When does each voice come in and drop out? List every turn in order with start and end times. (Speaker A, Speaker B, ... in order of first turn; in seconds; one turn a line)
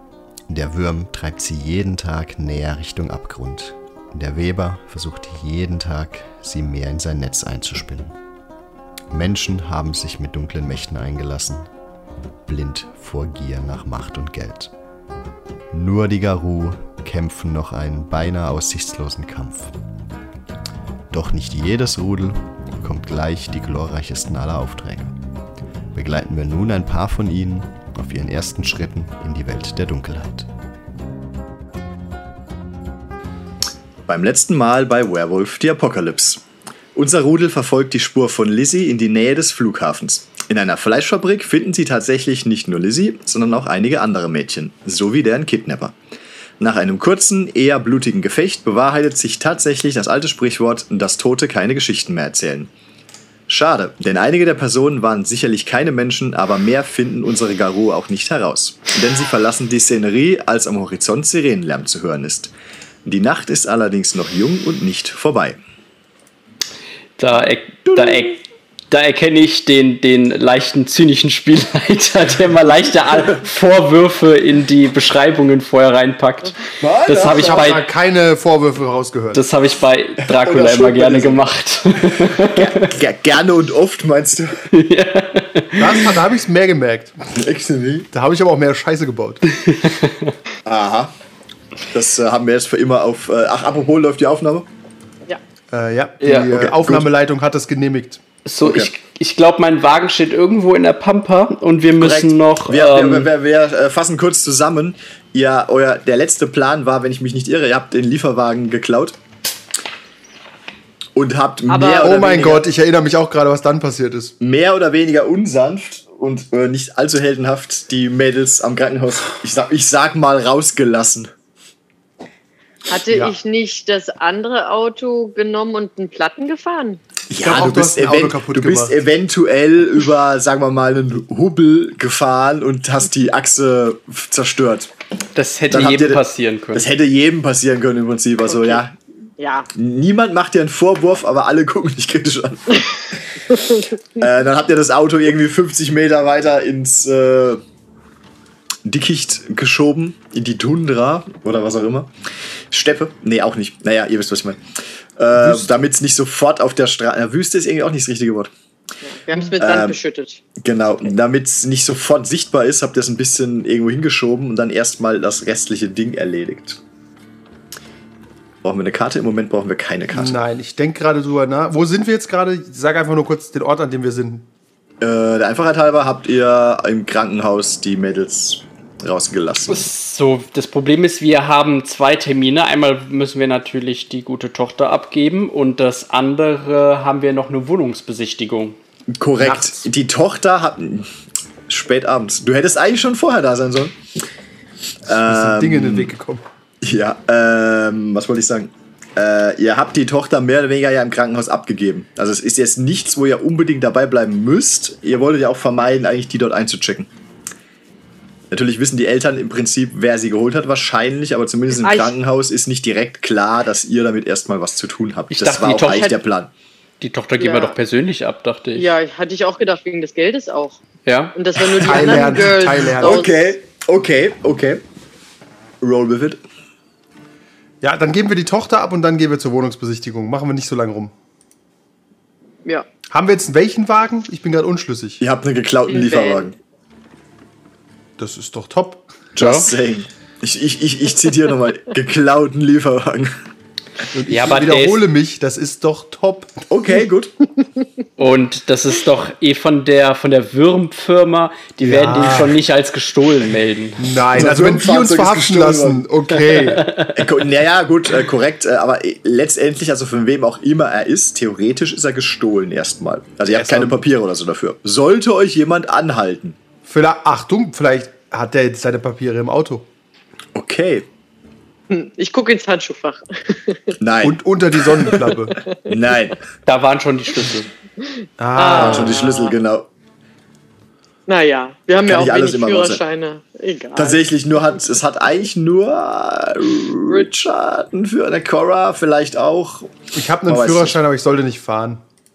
Speaker A: 0.5-8.2
Speaker A: 9.1-11.7
Speaker A: 12.4-14.7
Speaker A: 15.7-19.7
Speaker A: 21.1-25.1
Speaker A: 25.9-30.5
Speaker B: 34.1-36.4
Speaker B: 36.9-46.0
Speaker B: 46.6-52.7
Speaker B: 53.5-62.5
Speaker B: 63.0-65.6
Speaker C: 67.2-68.4
Speaker B: 67.9-68.4
Speaker C: 68.9-77.8
Speaker B: 76.8-77.8
Speaker D: 77.3-79.4
Speaker C: 79.3-82.9
Speaker B: 80.3-81.4
Speaker B: 82.4-84.6
Speaker C: 84.7-86.1
Speaker D: 85.8-87.3
Speaker B: 87.3-88.1
Speaker D: 88.1-89.4
Speaker C: 89.5-90.3
Speaker B: 90.7-91.1
Speaker B: 91.9-94.7
Speaker D: 95.7-98.2
Speaker C: 96.2-96.5
Speaker B: 96.5-97.1
Speaker C: 98.4-103.3
Speaker B: 98.6-98.9
Speaker B: 102.0-109.2
Speaker B: 111.1-112.6
Speaker E: 111.7-112.1
Speaker D: 112.0-114.3
Speaker B: 114.4-121.3
Speaker E: 122.9-127.0
Speaker D: 123.1-123.4
Speaker B: 127.3-134.9
Speaker D: 127.4-129.0
Speaker C: 135.3-136.8
Speaker B: 135.7-136.2
Speaker B: 136.7-138.9
Speaker E: 139.4-139.7
Speaker B: 139.7-143.5
Speaker B: 144.2-147.6
Speaker B: 148.8-152.1
Speaker B: 152.7-154.6
Speaker B: 155.2-158.5
Speaker D: 155.3-155.7
Speaker E: 159.0-160.4
Speaker B: 159.6-160.0
Speaker B: 160.6-166.8
Speaker B: 168.6-170.4
Speaker D: 170.1-174.5
Speaker B: 175.0-179.9
Speaker C: 179.7-188.8
Speaker B: 189.1-191.1
Speaker D: 189.4-189.8
Speaker B: 191.7-193.9
Speaker B: 195.0-196.1
Speaker D: 195.1-196.4
Speaker B: 196.8-207.1
Speaker B: 208.5-216.5
Speaker E: 211.8-212.1
Speaker C: 215.3-216.1
Speaker E: 215.9-216.2
Speaker C: 217.0-218.9
Speaker E: 217.4-217.7
Speaker E: 218.8-220.8
Speaker C: 221.0-221.3
Speaker E: 221.3-223.4
Speaker B: 221.8-224.8
Speaker D: 221.8-223.2
Speaker B: 225.8-226.4
Speaker D: 227.8-231.1
Speaker D: 233.1-235.2
Speaker B: 235.2-236.6
Speaker E: 235.9-236.5
Speaker D: 238.2-239.1
Speaker B: 239.3-243.3
Speaker C: 239.4-239.7
Speaker D: 244.1-246.5
Speaker C: 244.3-245.0
Speaker B: 246.7-247.3
Speaker C: 248.2-254.1
Speaker D: 251.8-252.6
Speaker D: 254.0-256.9
Speaker B: 254.3-256.1
Speaker C: 256.6-257.3
Speaker B: 257.1-266.6
Speaker D: 263.5-264.0
Speaker D: 266.9-269.9
Speaker B: 270.5-271.0
Speaker E: 271.9-273.9
Speaker B: 274.0-275.2
Speaker D: 274.2-275.6
Speaker B: 275.9-276.4
Speaker C: 276.6-277.7
Speaker E: 278.0-279.6
Speaker D: 278.4-279.2
Speaker B: 278.6-279.9
Speaker E: 281.3-284.2
Speaker B: 282.0-283.0
Speaker B: 283.9-290.9
Speaker D: 290.1-292.0